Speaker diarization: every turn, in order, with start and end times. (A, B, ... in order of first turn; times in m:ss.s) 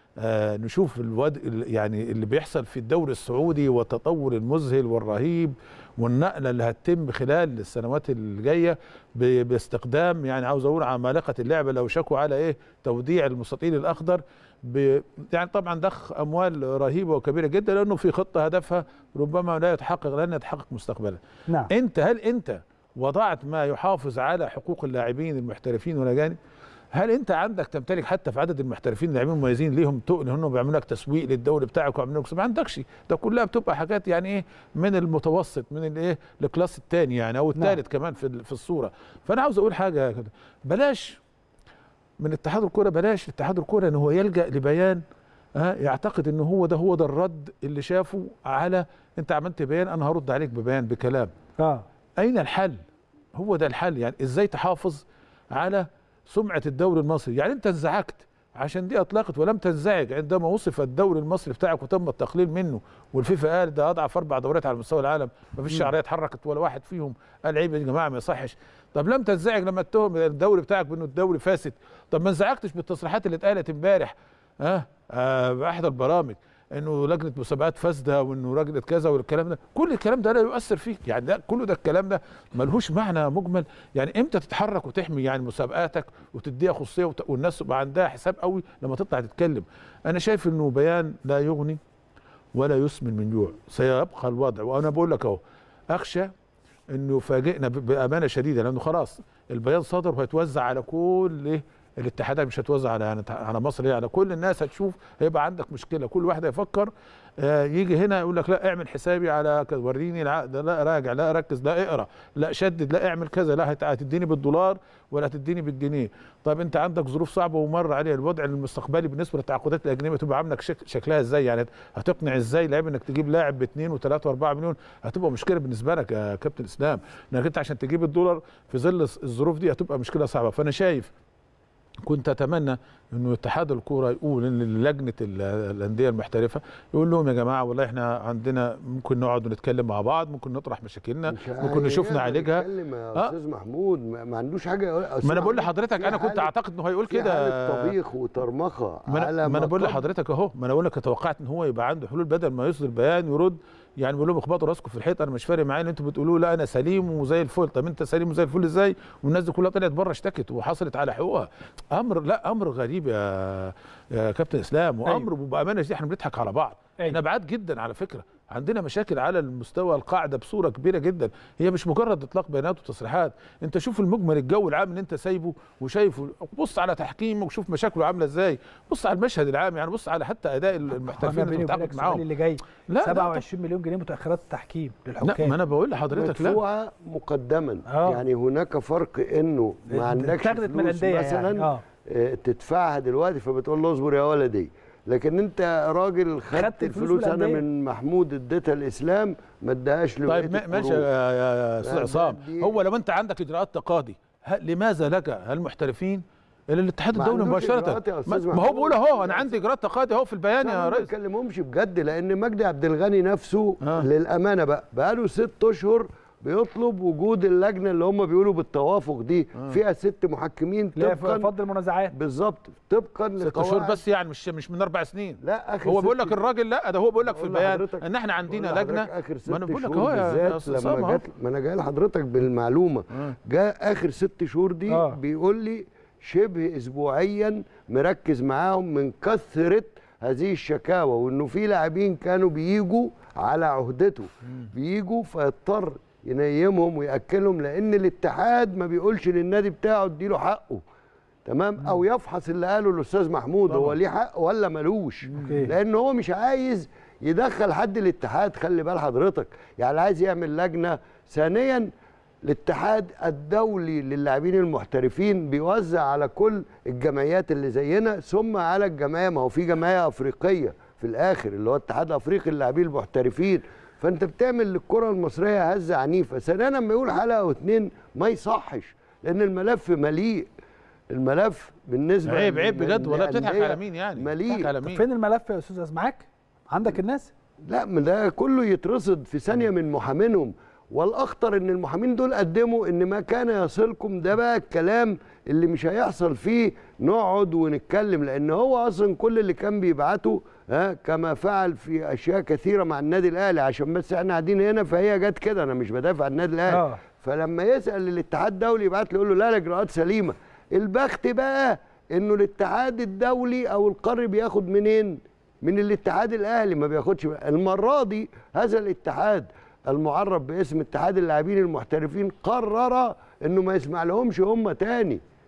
0:00.2-0:26.4 A
0:26.9-0:41.2 A
0:42.2-0:45.0 A
0:45.6-0:51.3 A
0:51.6-0:51.8 B
0:52.2-0:52.8 A
0:53.4-1:31.8 A
1:32.6-1:35.4 A
1:35.9-1:36.3 A
1:36.9-2:11.1 A
2:12.0-2:23.3 A
2:21.3-2:26.5 C
2:25.2-2:27.9 A
2:27.1-2:30.0 C
2:29.1-3:02.2 A
3:00.9-3:05.6 B
3:02.9-3:03.4 A
3:05.2-3:06.6 A
3:06.1-3:21.0 C
3:07.9-3:08.2 B
3:09.9-3:11.8 B
3:16.5-3:17.6 B
3:20.3-3:31.1 A
3:21.8-3:22.7 C
3:27.1-3:29.6 C
3:30.6-3:41.5 C
3:33.8-3:34.1 A
3:41.0-3:42.1 B
3:42.1-3:44.0 C
3:43.4-3:51.2 A
3:45.4-3:46.4 C
3:47.2-4:10.8 C
3:54.9-3:55.2 B
4:11.4-4:21.9 C
4:13.7-4:14.0 A
4:15.3-4:15.7 B
4:15.4-4:15.7 A
4:22.4-4:40.5 C
4:41.1-4:44.7 C
4:42.2-4:45.0 A
4:44.8-4:47.3 B
4:47.7-5:25.2 C
5:06.7-5:07.0 B